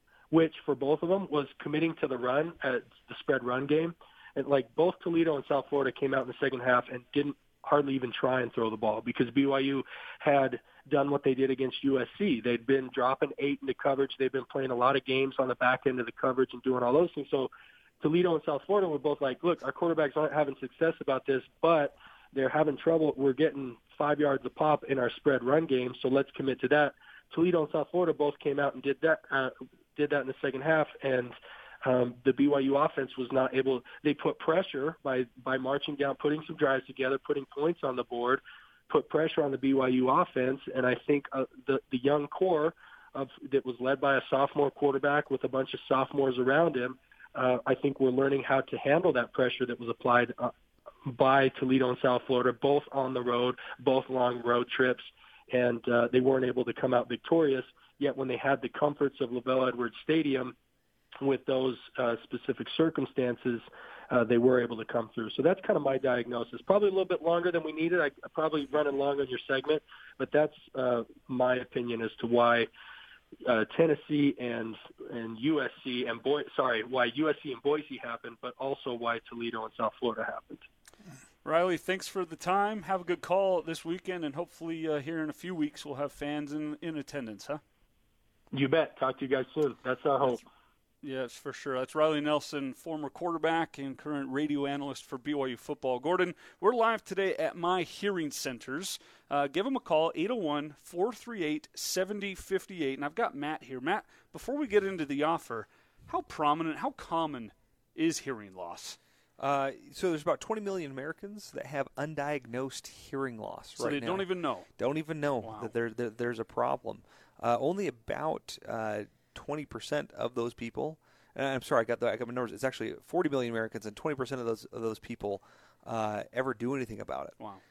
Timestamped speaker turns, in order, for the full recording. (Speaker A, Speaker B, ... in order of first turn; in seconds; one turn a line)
Speaker A: 0.3-50.5
Speaker A: 51.1-60.5
Speaker A: 61.2-72.7
Speaker A: 73.5-80.7
Speaker B: 81.5-87.6
Speaker A: 88.5-90.4
Speaker B: 91.0-109.0
Speaker C: 109.4-127.3
Speaker B: 113.8-114.7
Speaker B: 115.4-115.7